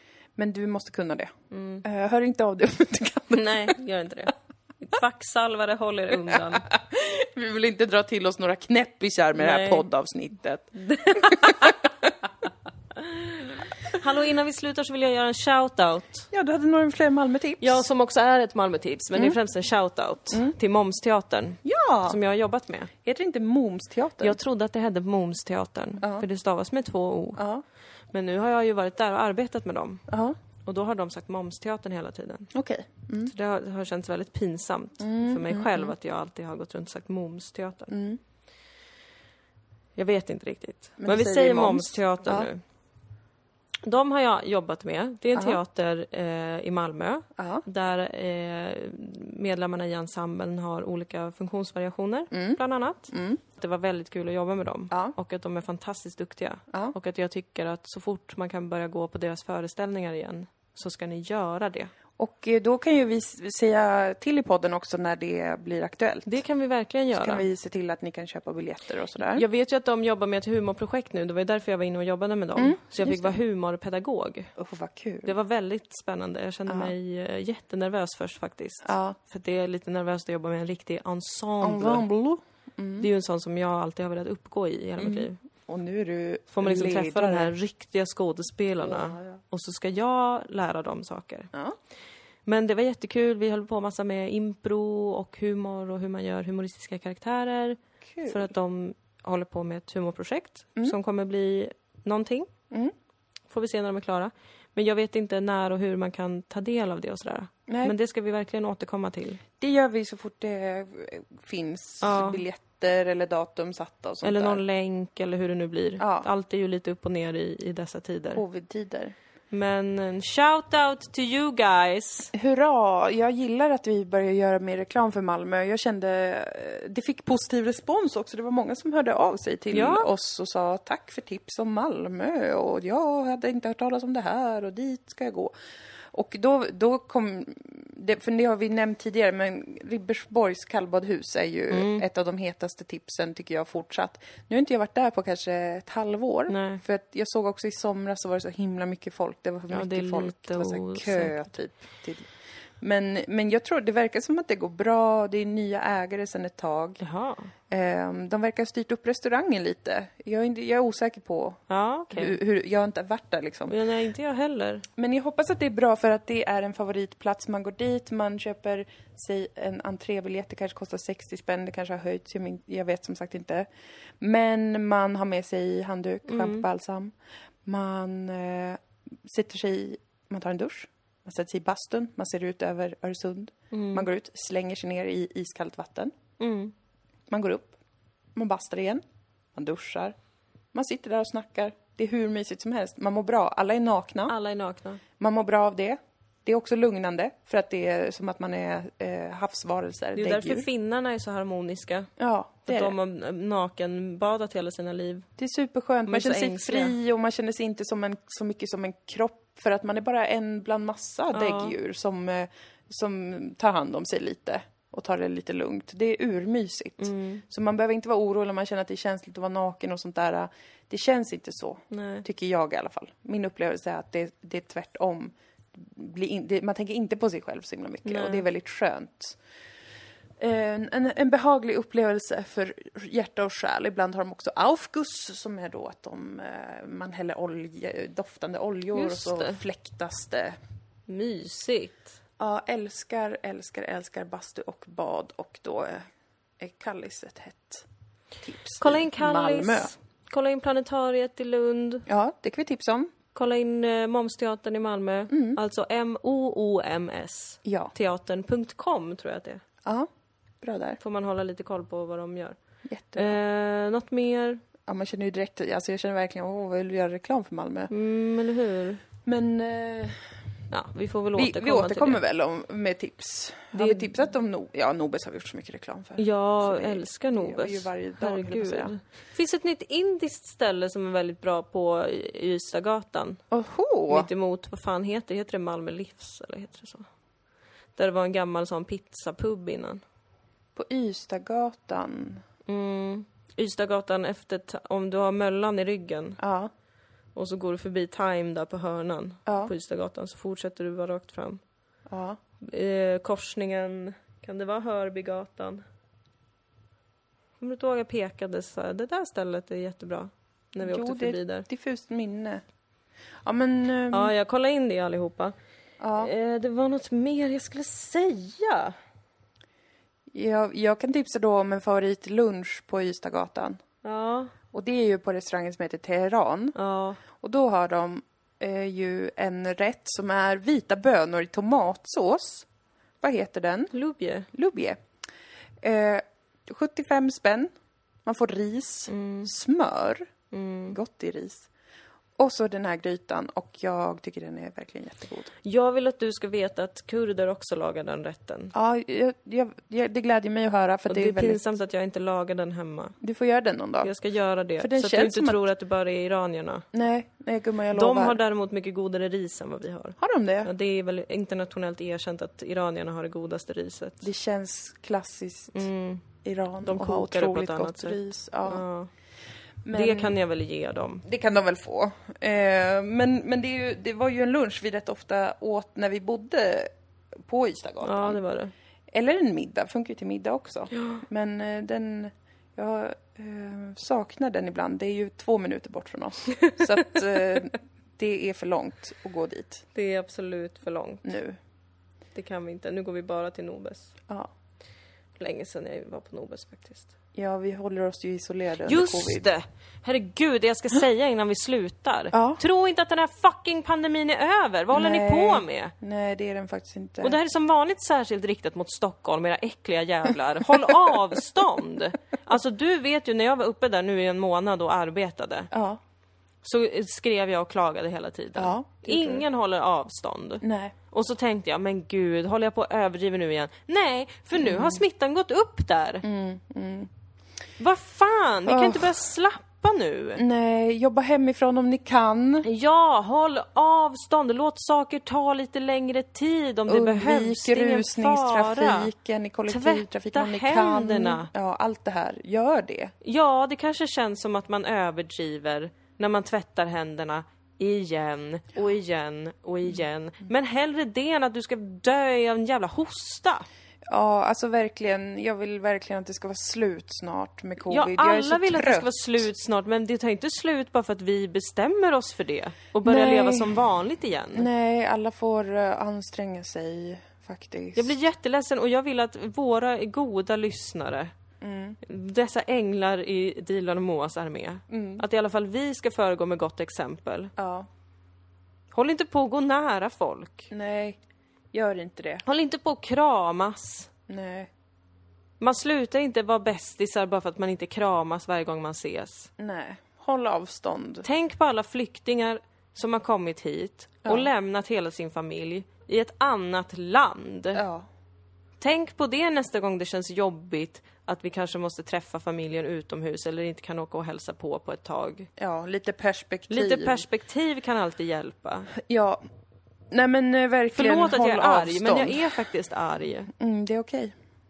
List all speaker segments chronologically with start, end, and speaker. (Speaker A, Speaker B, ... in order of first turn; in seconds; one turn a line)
Speaker A: 0.4-3.7
Speaker B: 1.5-1.8
Speaker B: 3.3-6.7
Speaker A: 6.3-11.9
Speaker B: 9.3-9.9
Speaker B: 10.8-11.7
Speaker B: 12.9-16.3
Speaker A: 16.3-17.8
Speaker B: 17.6-22.9
Speaker A: 21.6-22.2
Speaker A: 23.0-24.4
Speaker B: 24.2-27.4
Speaker A: 26.0-26.2
Speaker A: 27.4-27.6
Speaker B: 28.1-30.0
Speaker A: 30.1-30.4
Speaker B: 30.6-32.5
Speaker A: 32.5-33.3
Speaker B: 33.2-37.9
Speaker A: 35.0-35.9
Speaker A: 37.9-38.2
Speaker B: 40.0-42.6
Speaker A: 41.0-42.5
Speaker B: 43.8-61.9
Speaker A: 45.3-45.6
Speaker A: 47.4-47.6
Speaker A: 52.3-52.6
Speaker A: 53.1-53.4
Speaker A: 62.2-66.4
Speaker B: 66.2-67.5
Speaker A: 67.1-69.4
Speaker B: 69.2-74.5
Speaker A: 72.5-73.4
Speaker A: 74.5-75.3
Speaker B: 75.2-82.1
Speaker A: 76.7-76.9
Speaker A: 78.8-79.2
Speaker A: 81.6-83.1
Speaker B: 83.0-85.4
Speaker A: 85.0-87.5
Speaker B: 86.5-91.5
Speaker A: 88.8-89.4
Speaker B: 92.5-102.5
Speaker A: 98.1-98.5
Speaker B: 103.5-109.4
Speaker A: 107.7-107.9
Speaker A: 109.6-114.6
Speaker B: 112.0-112.4
Speaker B: 114.2-118.4
Speaker A: 116.0-116.3
Speaker A: 118.3-119.1
Speaker B: 119.5-122.3
Speaker A: 122.3-135.5
Speaker B: 129.7-130.1
Speaker A: 136.1-157.0
Speaker B: 141.7-142.0
Speaker B: 146.5-146.8
Speaker B: 149.7-151.4
Speaker B: 157.0-157.5
Speaker A: 157.7-161.6
Speaker B: 161.7-162.4
Speaker A: 162.1-163.8
Speaker B: 163.7-164.8
Speaker A: 165.0-173.7
Speaker A: 174.2-177.1
Speaker B: 176.3-176.6
Speaker A: 177.6-186.1
Speaker B: 183.7-184.1
Speaker B: 186.4-186.7
Speaker A: 187.3-187.8
Speaker A: 188.3-189.0
Speaker A: 189.5-190.1
Speaker A: 190.7-194.3
Speaker B: 194.3-195.0
Speaker A: 195.2-200.7
Speaker B: 200.1-202.1
Speaker A: 202.2-202.9
Speaker B: 202.7-205.3
Speaker A: 205.4-229.4
Speaker B: 206.1-206.9
Speaker B: 211.3-211.7
Speaker B: 217.0-217.4
Speaker B: 221.9-222.2
Speaker B: 228.0-228.4
Speaker A: 230.4-240.6
Speaker B: 238.9-239.6
Speaker B: 241.1-242.2
Speaker A: 242.4-246.1
Speaker A: 246.6-247.8
Speaker A: 248.4-249.9
Speaker B: 248.8-252.1
Speaker A: 252.1-253.1
Speaker B: 253.3-259.6
Speaker A: 255.3-255.6
Speaker A: 257.6-257.9
Speaker A: 260.6-261.0
Speaker B: 261.0-262.6
Speaker A: 262.9-263.4
Speaker B: 263.1-264.6
Speaker A: 264.9-267.9
Speaker B: 267.9-269.0
Speaker A: 269.2-270.3
Speaker B: 270.7-272.2
Speaker A: 271.3-278.9
Speaker B: 273.7-274.2
Speaker B: 276.2-283.4
Speaker A: 283.5-284.3
Speaker B: 284.1-287.1
Speaker B: 287.9-290.0
Speaker A: 290.8-292.4
Speaker B: 292.6-296.4
Speaker A: 296.4-296.7
Speaker B: 297.3-301.6
Speaker A: 299.5-299.7
Speaker A: 302.1-302.4
Speaker B: 302.6-305.8
Speaker B: 307.6-311.6
Speaker A: 310.8-312.6
Speaker A: 313.4-314.3
Speaker B: 314.1-315.5
Speaker A: 316.0-316.3
Speaker B: 316.2-318.9
Speaker A: 320.3-323.8
Speaker B: 324.0-324.5
Speaker A: 324.7-326.8
Speaker B: 326.7-327.2
Speaker A: 327.3-332.7
Speaker A: 333.2-333.9
Speaker B: 333.9-334.5
Speaker A: 334.5-335.0
Speaker A: 335.8-337.7
Speaker A: 338.2-340.3
Speaker B: 339.1-339.5
Speaker B: 340.5-340.9
Speaker A: 340.9-341.7
Speaker A: 342.4-345.5
Speaker B: 345.6-348.7
Speaker A: 348.7-351.6
Speaker B: 351.1-353.2
Speaker A: 353.2-354.1
Speaker B: 354.0-356.9
Speaker A: 354.8-355.6
Speaker A: 356.9-358.4
Speaker B: 357.9-364.2
Speaker A: 360.2-360.7
Speaker A: 364.2-365.9
Speaker B: 365.7-366.2
Speaker A: 366.4-368.8
Speaker B: 366.8-369.1
Speaker A: 369.8-370.3
Speaker B: 369.9-371.2
Speaker A: 371.2-376.9
Speaker A: 377.4-378.4
Speaker B: 378.0-378.7
Speaker A: 379.1-389.8
Speaker B: 380.9-381.2
Speaker B: 386.6-387.1
Speaker B: 389.9-391.2
Speaker A: 391.2-391.6
Speaker B: 392.3-394.1
Speaker B: 395.4-397.1
Speaker A: 397.4-399.5
Speaker B: 398.8-405.9
Speaker A: 402.3-402.6
Speaker A: 404.9-407.4
Speaker B: 407.2-415.7
Speaker A: 415.7-416.0
Speaker B: 416.6-426.2
Speaker A: 418.6-419.4
Speaker A: 420.6-420.9
Speaker A: 424.6-425.0
Speaker A: 426.2-427.1
Speaker B: 427.8-430.4
Speaker A: 428.6-429.1
Speaker A: 430.4-432.7
Speaker B: 432.6-439.1
Speaker A: 436.9-443.1
Speaker B: 439.7-441.5
Speaker B: 443.2-453.6
Speaker A: 454.1-459.2
Speaker B: 457.9-464.7
Speaker A: 463.0-463.8
Speaker A: 464.5-468.1
Speaker B: 467.9-471.3
Speaker A: 471.6-472.0
Speaker B: 472.0-477.5
Speaker A: 474.9-475.2
Speaker A: 477.6-477.9
Speaker B: 478.9-480.7
Speaker A: 480.7-481.2
Speaker A: 481.7-482.4
Speaker B: 482.4-484.1
Speaker A: 484.3-484.7
Speaker B: 485.6-489.5
Speaker A: 489.6-491.2
Speaker B: 491.2-497.8
Speaker A: 494.2-494.5
Speaker A: 497.7-498.1
Speaker B: 498.8-505.5
Speaker A: 505.6-507.2
Speaker B: 506.7-508.9
Speaker A: 508.9-509.4
Speaker A: 510.1-512.6
Speaker B: 510.9-513.5
Speaker A: 513.5-514.3